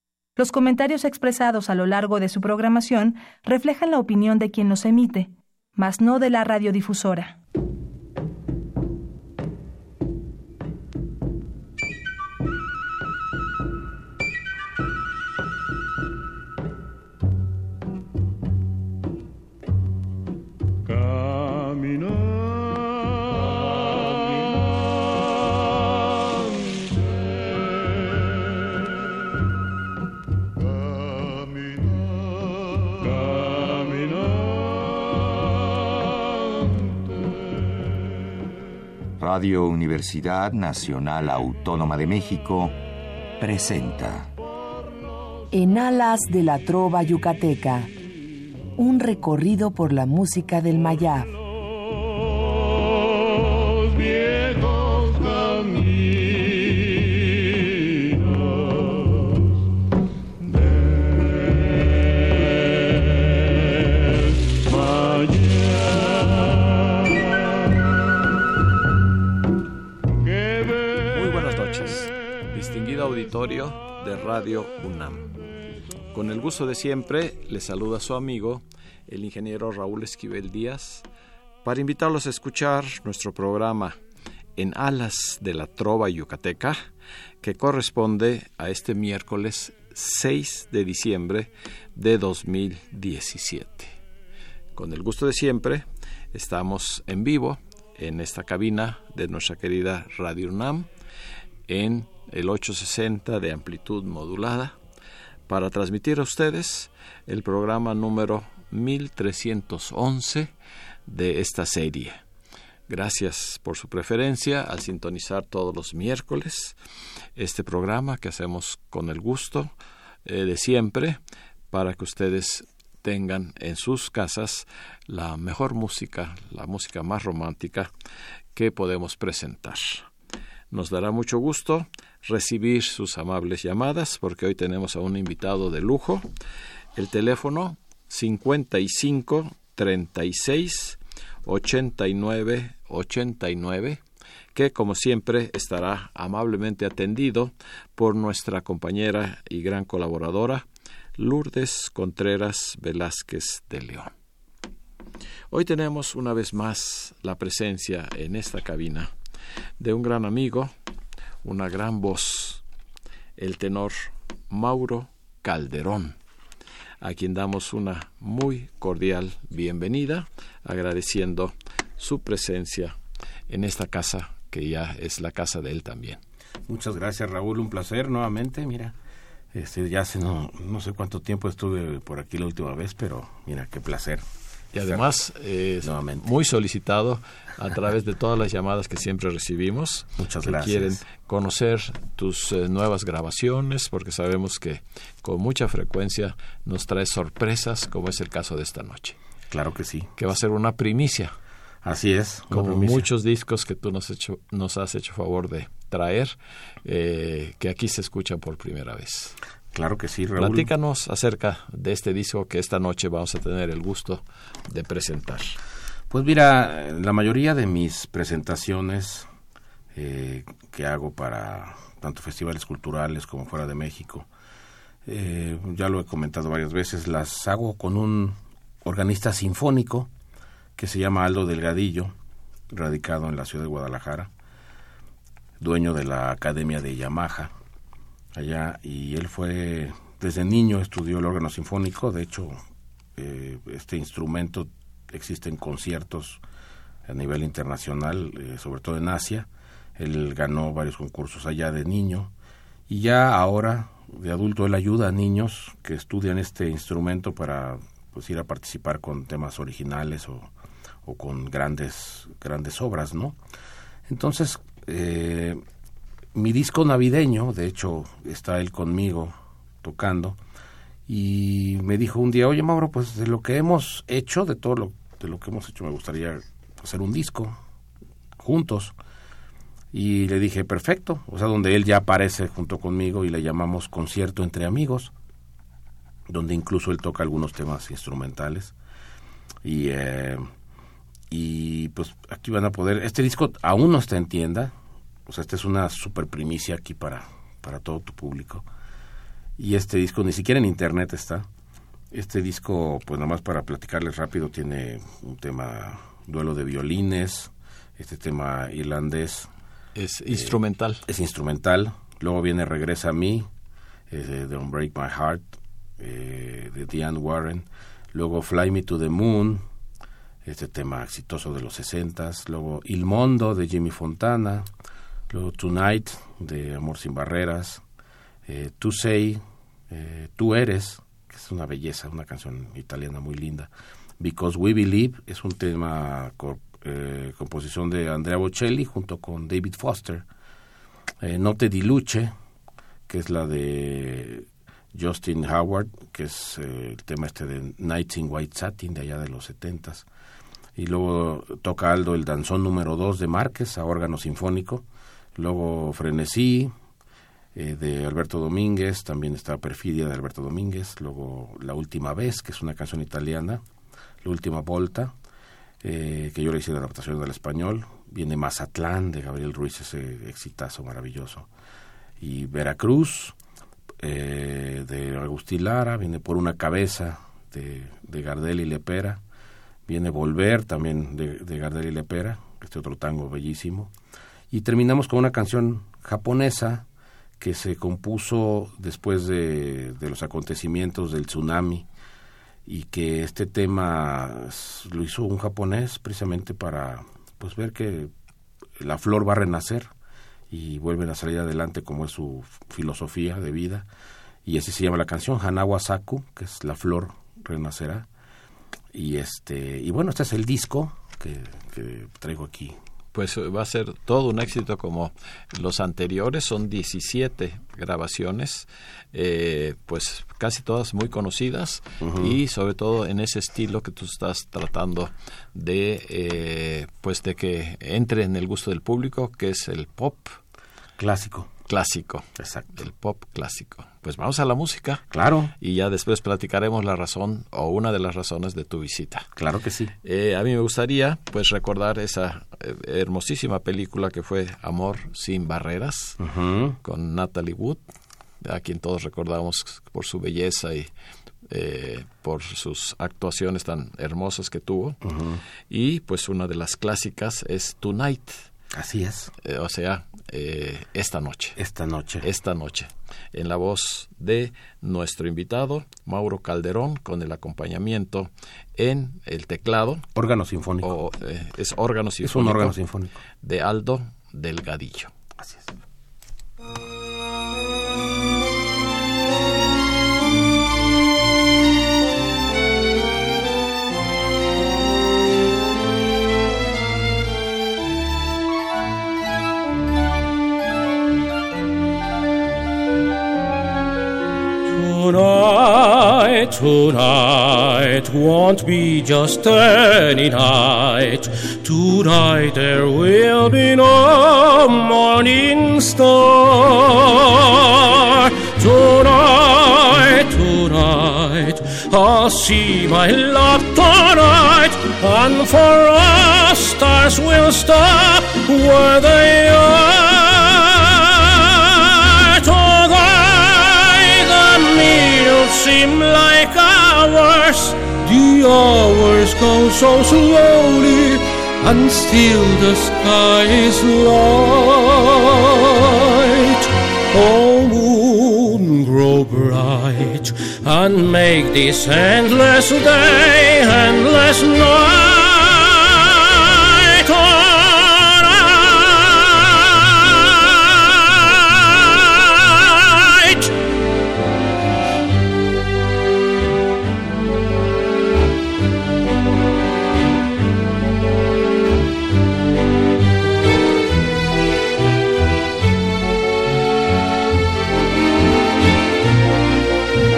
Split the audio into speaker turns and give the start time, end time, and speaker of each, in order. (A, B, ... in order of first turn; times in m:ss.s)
0:00.4-0:07.4 A
0:39.2-0:42.8 B
0:43.4-0:44.3 B
0:45.5-0:47.9 C
0:48.8-0:51.4 C
1:11.1-1:15.3 D
1:16.1-1:21.1 D
1:21.6-1:24.0 D
1:24.6-1:26.8 D
1:27.4-1:34.0 D
1:34.8-1:40.9 D
1:41.7-1:44.8 D
1:45.5-1:50.5 D
1:51.1-1:52.2 D
1:52.9-1:56.8 D
1:57.4-1:59.7 D
2:00.2-2:01.2 D
2:01.7-2:07.9 D
2:08.6-2:10.1 D
2:10.7-2:16.3 D
2:17.0-2:24.0 D
2:24.5-2:30.6 D
2:31.2-2:34.1 D
2:35.5-2:39.1 D
2:39.8-2:40.7 D
2:41.4-2:42.6 D
2:43.4-2:46.2 D
2:47.0-2:53.0 D
2:53.5-2:56.2 D
2:56.7-2:59.0 E
2:59.5-3:04.2 E
3:04.7-3:19.2 D
3:04.8-3:05.1 E
3:05.8-3:06.2 E
3:10.2-3:11.0 E
3:19.5-3:20.1 E
3:20.2-3:21.4 D
3:21.8-3:23.1 E
3:22.5-3:29.4 D
3:29.7-3:30.7 E
3:30.4-3:35.6 D
3:36.1-3:39.3 E
3:39.9-3:44.3 E
3:45.0-3:50.1 E
3:50.8-3:52.2 E
3:52.7-3:54.3 E
3:55.6-3:57.5 E
3:58.3-4:02.6 E
4:03.2-4:06.4 E
4:07.1-4:12.3 E
4:12.9-4:20.5 E
4:21.0-4:23.4 E
4:24.1-4:25.6 E
4:26.3-4:30.4 E
4:31.1-4:37.6 E
4:38.4-4:39.0 E
4:39.9-4:45.1 E
4:46.3-4:48.8 E
4:49.6-4:50.4 E
4:51.3-4:54.8 E
4:55.3-4:58.7 E
4:59.6-5:01.5 E
5:02.1-5:09.5 E
5:10.0-5:11.0 D
5:10.3-5:13.5 E
5:14.1-5:19.6 E
5:20.4-5:24.7 E
5:25.3-5:27.8 E
5:28.5-5:40.2 E
5:41.2-5:42.3 E
5:43.1-5:50.1 E
5:50.8-5:56.7 E
5:57.5-6:03.6 E
6:04.2-6:05.2 E
6:05.8-6:11.5 E
6:12.2-6:13.4 E
6:14.0-6:19.2 E
6:19.9-6:23.9 E
6:24.5-6:26.8 E
6:27.4-6:31.9 E
6:32.7-6:38.1 E
6:38.8-6:39.9 E
6:40.5-6:43.9 E
6:44.4-6:48.1 E
6:48.9-6:52.8 E
6:53.1-7:10.4 D
7:02.0-7:02.4 E
7:11.0-7:11.5 E
7:11.7-7:15.0 D
7:12.4-7:12.8 E
7:15.1-7:15.5 E
7:15.6-7:19.3 D
7:19.4-7:19.9 E
7:20.0-7:26.2 D
7:26.2-7:26.8 E
7:26.8-7:27.8 D
7:28.4-7:30.9 D
7:31.5-7:35.0 D
7:35.0-7:35.4 E
7:35.7-7:38.5 D
7:38.7-7:39.3 E
7:39.4-7:41.6 D
7:41.6-7:42.3 E
7:42.2-7:50.1 D
7:50.2-7:50.9 E
7:50.8-7:52.8 D
7:52.2-7:53.2 E
7:53.4-7:55.1 D
7:55.4-7:55.7 E
8:14.7-9:13.5 F